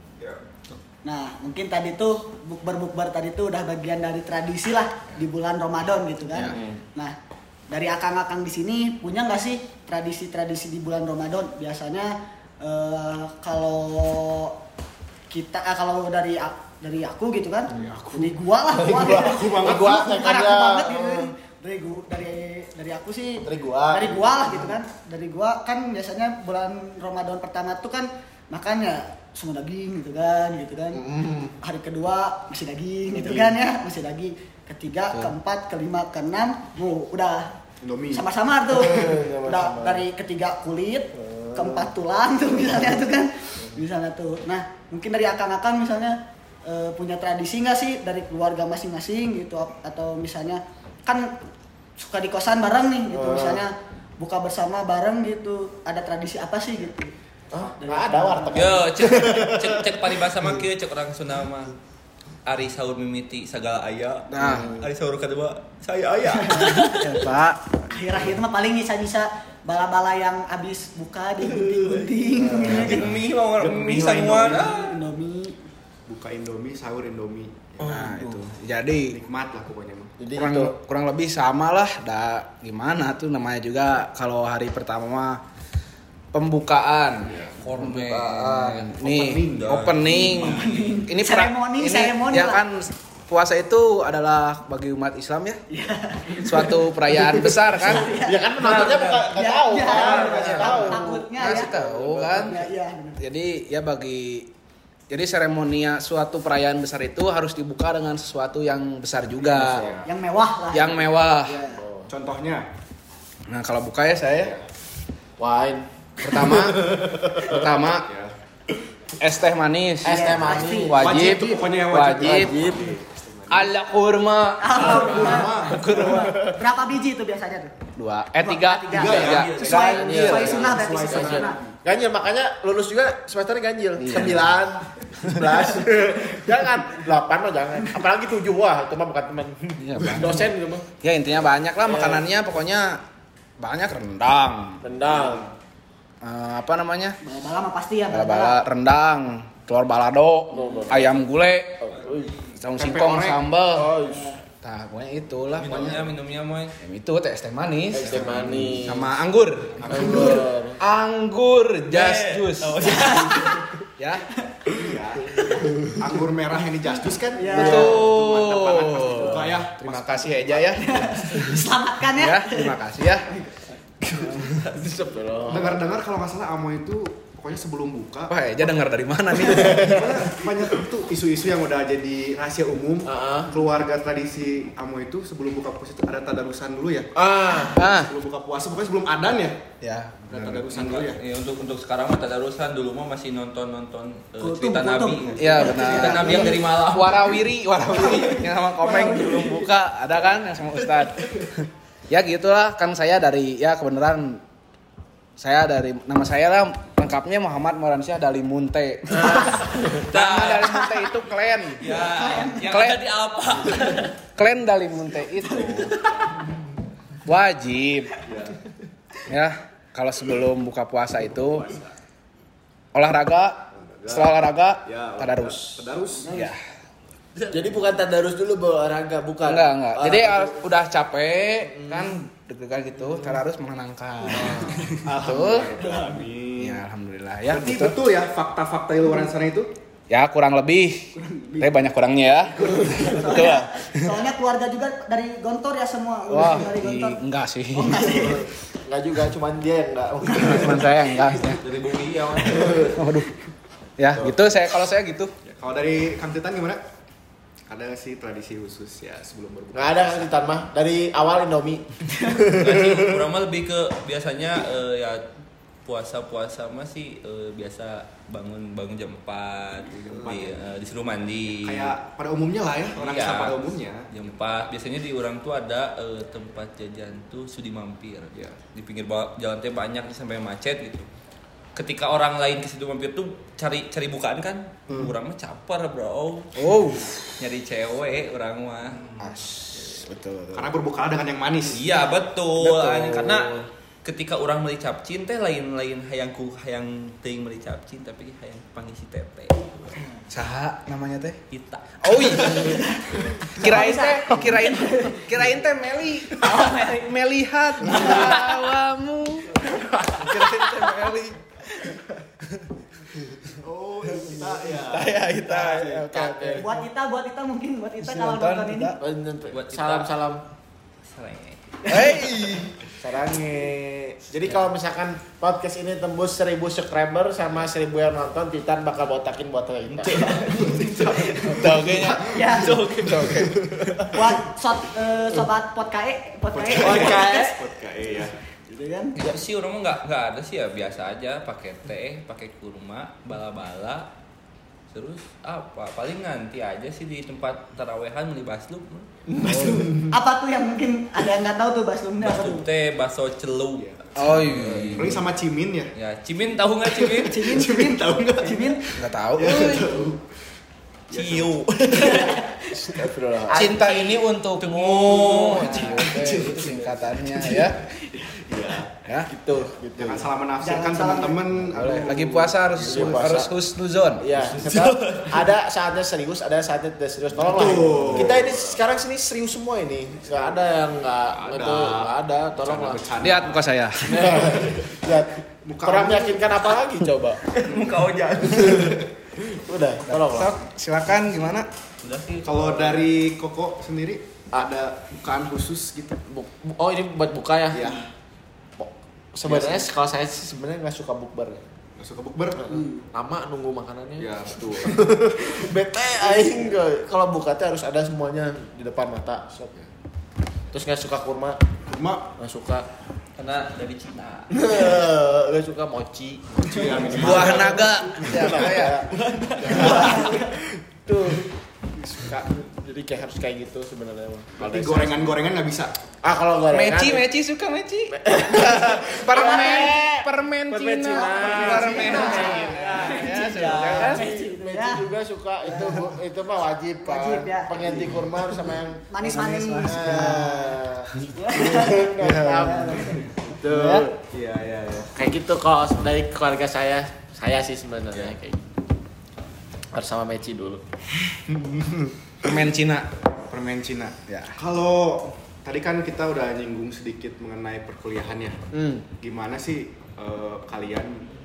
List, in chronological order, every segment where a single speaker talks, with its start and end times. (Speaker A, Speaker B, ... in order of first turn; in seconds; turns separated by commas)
Speaker A: 1.0-7.1, Speaker B: 6.4-6.8, Speaker A: 7.7-14.5, Speaker A: 15.3-31.0, Speaker C: 17.7-20.1, Speaker B: 19.5-21.3, Speaker B: 23.4-24.8, Speaker B: 30.9-31.6, Speaker A: 31.6-37.5, Speaker B: 33.1-33.6, Speaker C: 37.8-38.2, Speaker A: 38.1-51.3, Speaker B: 38.7-40.0, Speaker B: 41.1-41.9, Speaker A: 52.0-57.1, Speaker B: 53.1-53.6, Speaker B: 57.5-60.1, Speaker A: 57.8-58.8, Speaker D: 58.5-61.7, Speaker D: 62.5-67.2, Speaker E: 64.3-64.7, Speaker B: 64.4-64.9, Speaker A: 66.5-67.0, Speaker E: 67.0-67.8, Speaker A: 67.9-73.0, Speaker B: 72.4-73.0, Speaker C: 72.5-74.9, Speaker D: 72.7-74.9, Speaker A: 74.5-75.5, Speaker C: 76.1-78.4, Speaker E: 77.8-79.2, Speaker C: 79.1-80.2, Speaker B: 80.2-80.7, Speaker E: 80.3-85.4, Speaker E: 86.3-95.6, Speaker C: 87.2-87.8, Speaker D: 87.6-88.8, Speaker C: 88.8-90.4, Speaker D: 89.5-90.6, Speaker A: 90.6-92.6, Speaker A: 95.7-96.8, Speaker E: 96.4-98.2, Speaker A: 97.8-101.7, Speaker B: 98.1-102.4, Speaker E: 100.0-102.6, Speaker C: 100.2-100.8, Speaker C: 102.0-102.4, Speaker A: 102.3-103.2, Speaker E: 103.2-104.5, Speaker E: 105.1-109.8, Speaker C: 109.5-110.1, Speaker A: 110.0-111.8, Speaker E: 110.7-111.5, Speaker B: 111.7-112.1, Speaker C: 112.1-112.6, Speaker E: 113.5-114.5, Speaker B: 115.4-117.6, Speaker E: 116.2-116.8, Speaker E: 117.5-118.0, Speaker C: 117.8-118.3, Speaker E: 119.2-122.6, Speaker B: 120.0-122.9, Speaker A: 120.0-120.9, Speaker C: 121.0-123.7, Speaker E: 123.5-126.4, Speaker A: 124.6-127.7, Speaker C: 124.7-126.3, Speaker B: 126.1-126.5, Speaker E: 128.0-130.6, Speaker A: 128.4-131.6, Speaker C: 128.9-131.8, Speaker B: 129.1-140.9, Speaker E: 134.0-134.6, Speaker E: 139.8-143.0, Speaker B: 141.8-142.2, Speaker E: 143.6-144.8, Speaker B: 144.8-145.5, Speaker E: 146.2-147.2, Speaker A: 147.2-148.6, Speaker E: 148.1-151.8, Speaker B: 150.5-151.2, Speaker B: 151.8-152.3, Speaker D: 151.9-152.4, Speaker E: 152.6-153.9, Speaker C: 152.8-153.4, Speaker B: 153.7-154.3, Speaker A: 154.1-154.4, Speaker E: 154.6-156.1, Speaker D: 155.6-156.7, Speaker E: 156.8-163.0, Speaker B: 157.9-159.1, Speaker C: 158.2-158.8, Speaker C: 159.8-160.5, Speaker B: 159.9-160.8, Speaker D: 161.9-163.6, Speaker A: 162.9-163.6, Speaker E: 164.0-164.2, Speaker C: 164.7-171.4, Speaker B: 165.4-166.1, Speaker A: 167.3-167.9, Speaker B: 167.5-168.2, Speaker E: 167.5-171.0, Speaker B: 169.1-169.6, Speaker A: 170.8-172.7, Speaker E: 172.2-173.3, Speaker B: 174.2-175.8, Speaker C: 175.4-178.4, Speaker E: 178.3-180.0, Speaker B: 179.4-180.1, Speaker C: 179.8-187.1, Speaker B: 183.0-183.5, Speaker B: 187.2-187.8, Speaker E: 187.8-188.1, Speaker C: 187.9-189.6, Speaker E: 189.8-190.7, Speaker C: 190.3-191.2, Speaker D: 190.7-197.4, Speaker A: 194.4-196.6, Speaker E: 195.4-201.5, Speaker A: 198.8-199.6, Speaker E: 202.1-204.4, Speaker E: 205.4-211.8, Speaker B: 209.3-210.0, Speaker D: 210.1-210.8, Speaker D: 211.8-214.1, Speaker A: 211.9-212.6, Speaker E: 212.6-213.0, Speaker E: 214.4-215.9, Speaker A: 215.6-216.2, Speaker E: 217.2-218.2, Speaker C: 218.2-218.6, Speaker E: 219.3-221.7, Speaker C: 221.6-221.9, Speaker E: 222.9-226.6, Speaker C: 223.8-226.3, Speaker A: 226.2-226.5, Speaker B: 227.5-230.5, Speaker E: 229.4-235.7, Speaker B: 231.7-232.2, Speaker B: 234.3-235.5, Speaker C: 235.0-236.8, Speaker A: 235.8-236.2, Speaker E: 236.6-238.0, Speaker C: 237.5-239.7, Speaker E: 240.1-244.2, Speaker A: 241.2-241.7, Speaker A: 242.8-247.2, Speaker E: 246.3-248.4, Speaker A: 247.8-248.4, Speaker B: 248.0-251.1, Speaker E: 250.3-251.6, Speaker D: 251.6-253.0, Speaker B: 252.6-252.9, Speaker E: 252.9-253.3, Speaker E: 254.0-255.3, Speaker C: 255.4-256.8, Speaker C: 257.7-260.3, Speaker B: 259.7-263.2, Speaker D: 262.6-265.2, Speaker D: 265.8-272.0, Speaker C: 269.9-270.8, Speaker C: 271.5-274.1, Speaker D: 272.9-281.1, Speaker C: 278.3-278.6, Speaker D: 281.8-289.0, Speaker E: 286.6-287.3, Speaker E: 289.2-290.7, Speaker C: 290.5-291.9, Speaker D: 291.7-293.5, Speaker E: 292.6-293.6, Speaker D: 294.0-300.0, Speaker E: 300.3-301.4, Speaker D: 301.5-302.5, Speaker E: 302.0-302.8, Speaker A: 302.5-305.2, Speaker E: 303.6-309.6, Speaker A: 306.4-307.1, Speaker A: 307.9-308.1, Speaker C: 310.1-311.4, Speaker E: 310.8-311.1, Speaker C: 313.5-316.4, Speaker B: 314.4-316.7, Speaker E: 314.8-316.7, Speaker A: 316.6-318.9, Speaker E: 318.0-319.0, Speaker B: 319.0-320.4, Speaker D: 319.5-320.1, Speaker D: 321.1-321.9, Speaker E: 321.9-322.7, Speaker C: 322.1-322.5, Speaker B: 323.0-330.5, Speaker C: 323.1-323.4, Speaker C: 330.1-332.1, Speaker A: 331.0-331.6, Speaker E: 331.4-333.6, Speaker A: 332.2-332.7, Speaker D: 332.5-333.3, Speaker C: 332.8-334.2, Speaker A: 334.1-337.6, Speaker C: 336.5-338.4, Speaker B: 336.8-337.5, Speaker A: 338.7-339.1, Speaker D: 339.2-344.1, Speaker D: 344.9-349.1, Speaker B: 349.3-350.0, Speaker C: 349.4-350.1, Speaker E: 349.4-349.8, Speaker A: 350.1-352.6, Speaker D: 352.2-355.2, Speaker C: 353.8-355.9, Speaker E: 354.2-355.1, Speaker D: 355.9-357.4, Speaker C: 356.9-360.2, Speaker A: 357.2-358.8, Speaker E: 358.9-359.9, Speaker D: 361.1-362.4, Speaker C: 361.1-361.6, Speaker A: 361.9-362.3, Speaker B: 362.8-363.8, Speaker E: 363.5-367.8, Speaker D: 364.6-366.1, Speaker B: 365.8-367.0, Speaker C: 366.1-368.9, Speaker E: 369.0-369.3, Speaker B: 369.3-370.3, Speaker C: 369.9-373.3, Speaker A: 370.6-371.4, Speaker E: 371.7-374.3, Speaker B: 372.8-373.5, Speaker B: 374.2-383.2, Speaker D: 374.7-375.3, Speaker C: 377.3-378.8, Speaker C: 380.3-380.6, Speaker C: 381.3-383.7, Speaker E: 383.2-384.6, Speaker B: 384.1-387.7, Speaker C: 384.4-384.9, Speaker C: 385.6-386.5, Speaker D: 387.6-388.8, Speaker B: 388.5-390.5, Speaker E: 390.1-391.7, Speaker D: 392.0-392.9, Speaker C: 392.4-396.2, Speaker B: 396.3-397.9, Speaker C: 397.7-398.0, Speaker B: 398.8-401.6, Speaker C: 399.4-399.9, Speaker C: 402.0-402.7, Speaker B: 402.7-409.6, Speaker A: 402.7-403.0, Speaker C: 404.2-405.1, Speaker C: 409.6-409.9, Speaker B: 410.7-411.6, Speaker C: 411.9-412.3, Speaker B: 412.4-412.8, Speaker D: 413.4-414.9, Speaker B: 414.5-420.5, Speaker C: 416.6-417.7, Speaker E: 417.1-419.0, Speaker C: 419.7-420.5, Speaker A: 420.0-420.4, Speaker B: 421.1-421.5, Speaker B: 422.0-425.4, Speaker C: 424.6-425.9, Speaker B: 426.2-427.2, Speaker E: 426.7-434.3, Speaker B: 428.1-444.2, Speaker A: 431.3-435.1, Speaker A: 435.6-436.0, Speaker A: 437.0-437.7, Speaker C: 437.8-438.1, Speaker A: 439.1-440.4, Speaker C: 439.4-439.6, Speaker E: 439.4-440.6, Speaker A: 441.4-444.0, Speaker C: 441.7-443.3, Speaker C: 444.3-445.1, Speaker B: 445.1-448.6, Speaker B: 449.9-450.8, Speaker C: 451.5-452.6, Speaker E: 452.4-453.1, Speaker C: 453.5-458.6, Speaker E: 454.3-454.6, Speaker B: 458.7-459.1, Speaker C: 459.2-461.2